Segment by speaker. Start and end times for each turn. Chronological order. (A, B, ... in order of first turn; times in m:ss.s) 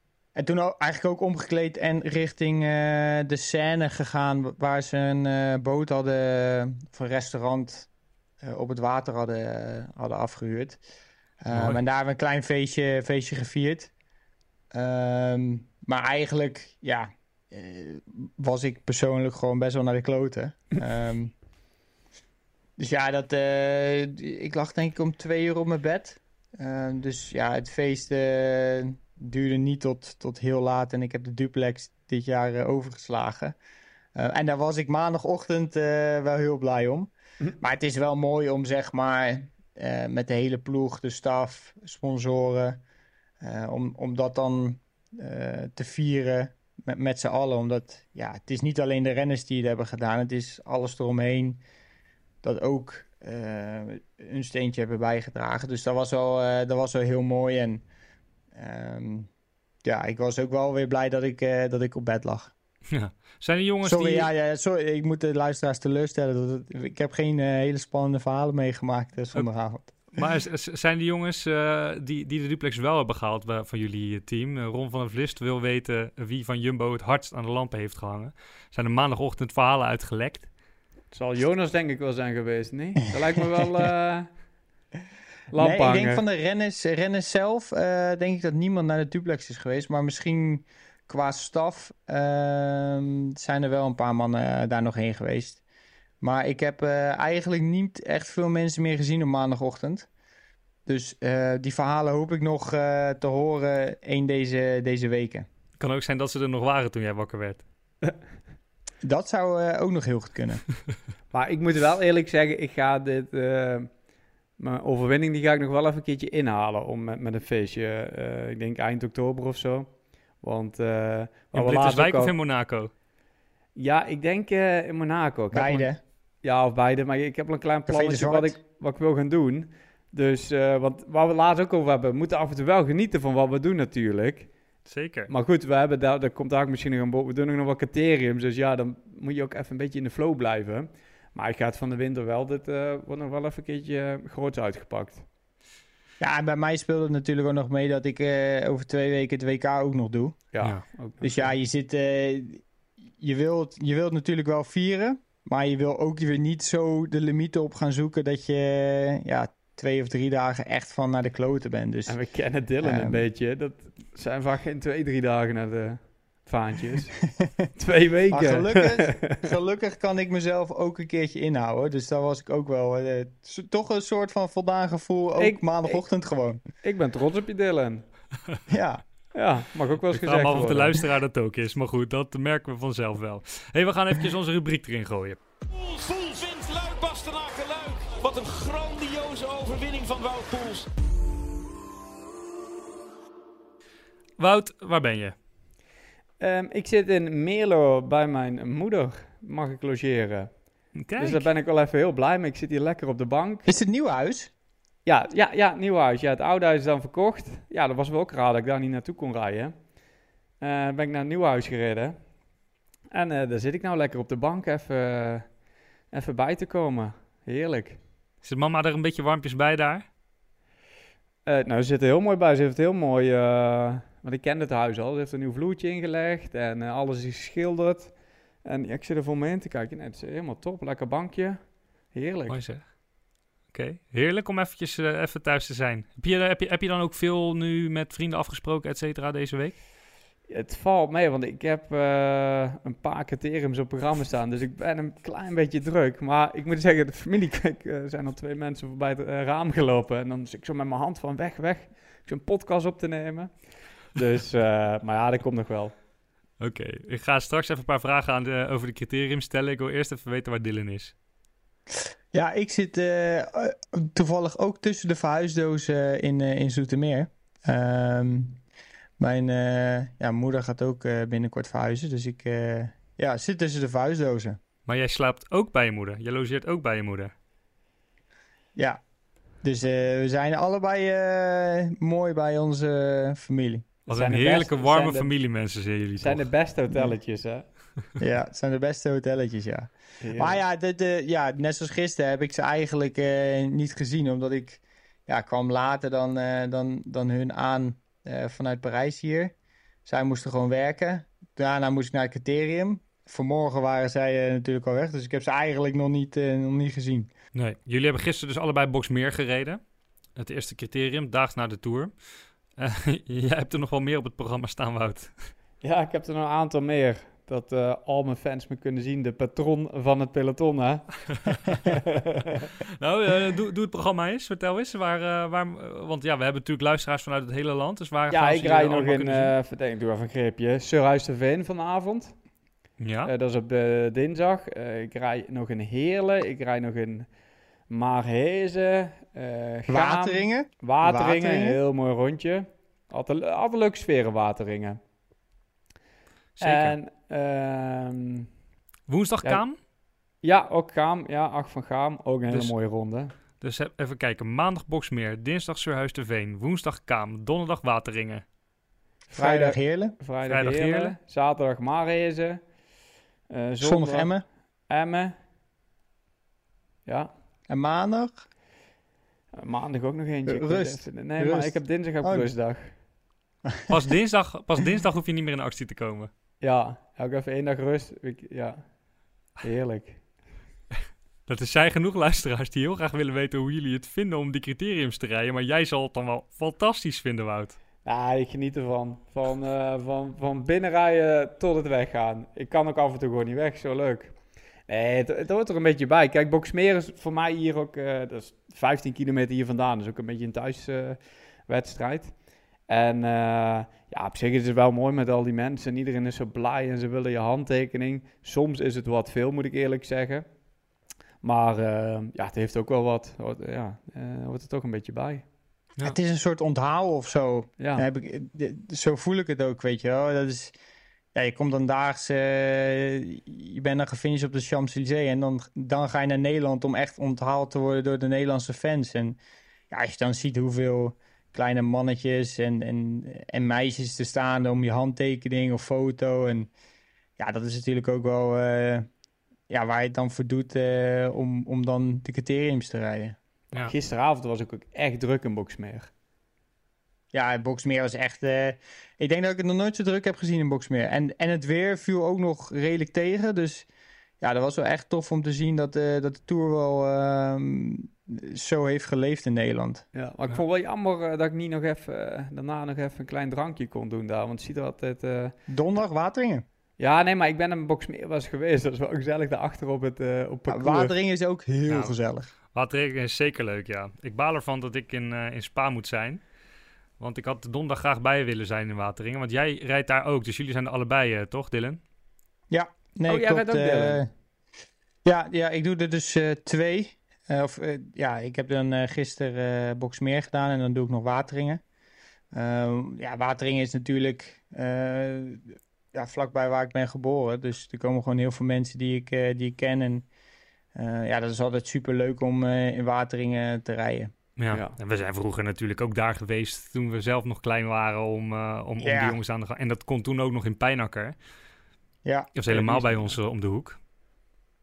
0:00.4-0:07.9 A
0:08.4-0:10.8 A
0:11.4-0:13.9 A
0:11.5-0:11.8 B
0:14.7-0:21.4 A
0:22.8-0:33.6 A
0:34.1-0:42.8 A
0:43.4-0:51.6 A
0:52.4-0:57.8 A
0:58.5-0:59.3 A
0:59.8-1:02.5 A
1:02.9-1:04.3 B
1:03.8-1:10.0 A
1:10.1-1:20.5 B
1:21.1-1:24.3 C
1:25.5-1:26.2 C
1:25.5-1:35.6 A
1:36.2-1:40.1 A
1:40.9-1:45.4 A
1:45.8-1:47.6 B
1:49.0-1:50.6 A
1:51.3-1:53.9 C
1:54.6-2:02.4 C
2:01.5-2:02.9 B
2:03.8-2:14.5 C
2:05.5-2:06.0 A
2:07.9-2:08.6 A
2:14.9-2:15.3 B
2:15.3-2:25.2 C
2:26.2-2:30.4 A
2:30.5-2:31.5 C
2:31.2-2:32.6 A
2:33.2-2:42.2 A
2:42.1-2:49.5 C
2:42.8-2:43.3 A
2:48.3-2:56.6 A
2:55.4-2:56.1 C
2:56.8-2:58.0 C
2:58.7-2:59.0 A
2:59.3-3:01.0 C
3:00.1-3:05.4 B
3:05.7-3:10.9 D
3:14.4-3:15.4 B
3:16.4-3:23.6 C
3:21.0-3:21.5 B
3:23.6-3:24.5 A
3:25.1-3:29.8 C
3:30.6-3:32.2 C
3:33.1-3:35.5 C
3:36.1-3:38.0 C
3:38.4-3:40.1 B
3:41.4-3:52.6 C
3:52.5-3:53.0 B
3:53.7-3:59.8 B
4:00.5-4:15.9 C
4:16.6-4:21.1 B
4:22.3-4:28.6 A
4:29.2-4:34.6 A
4:34.9-4:37.3 B
4:38.8-4:39.0 A
4:39.6-4:43.9 A
4:44.1-4:46.5 B
4:44.1-4:45.3 C
4:46.2-4:47.9 C
4:48.2-4:59.5 A
4:50.2-4:50.6 C
5:00.0-5:07.3 A
5:07.6-5:09.8 B
5:10.4-5:12.1 B
5:12.8-5:15.5 B
5:15.8-5:21.3 C
5:21.5-5:21.8 B
5:21.8-5:22.7 C
5:23.0-5:29.5 B
5:28.3-5:32.4 C
5:33.0-5:33.3 B
5:33.2-5:37.3 C
5:37.9-5:45.0 C
5:39.9-5:41.8 A
5:46.6-5:47.0 B
5:46.6-5:48.5 C
5:49.1-5:49.8 B
5:50.4-5:53.3 C
5:53.6-5:58.4 B
5:59.3-6:02.6 C
5:59.3-6:00.2 A
6:00.5-6:01.1 B
6:03.5-6:04.4 C
6:03.8-6:04.4 A
6:04.9-6:05.4 C
6:07.1-6:07.3 C
6:07.7-6:08.4 A
6:09.6-6:12.9 C
6:10.4-6:12.5 A
6:13.9-6:16.3 B
6:16.6-6:18.8 C
6:19.6-6:20.2 C
6:21.5-6:27.8 B
6:28.0-6:50.4 C
6:51.4-6:55.4 C
6:56.0-7:00.7 A
6:57.8-6:58.1 C
7:01.3-7:16.7 A
7:17.4-7:19.1 A
7:19.7-7:23.4 A
7:23.8-7:26.1 C
7:27.3-7:33.9 A
7:34.4-7:40.0 A
7:40.1-7:45.6 C
7:45.7-7:46.6 A
7:47.0-7:51.1 C
7:50.7-7:52.5 A
7:51.9-7:52.1 B
7:52.7-7:56.4 B
7:57.2-8:02.0 B
8:02.7-8:04.3 A
8:03.3-8:04.2 C
8:05.2-8:11.8 A
8:12.5-8:20.3 A
8:20.9-8:24.3 A
8:24.6-8:31.4 B
8:29.0-8:29.4 A
8:32.2-8:33.4 A
8:32.6-8:34.0 B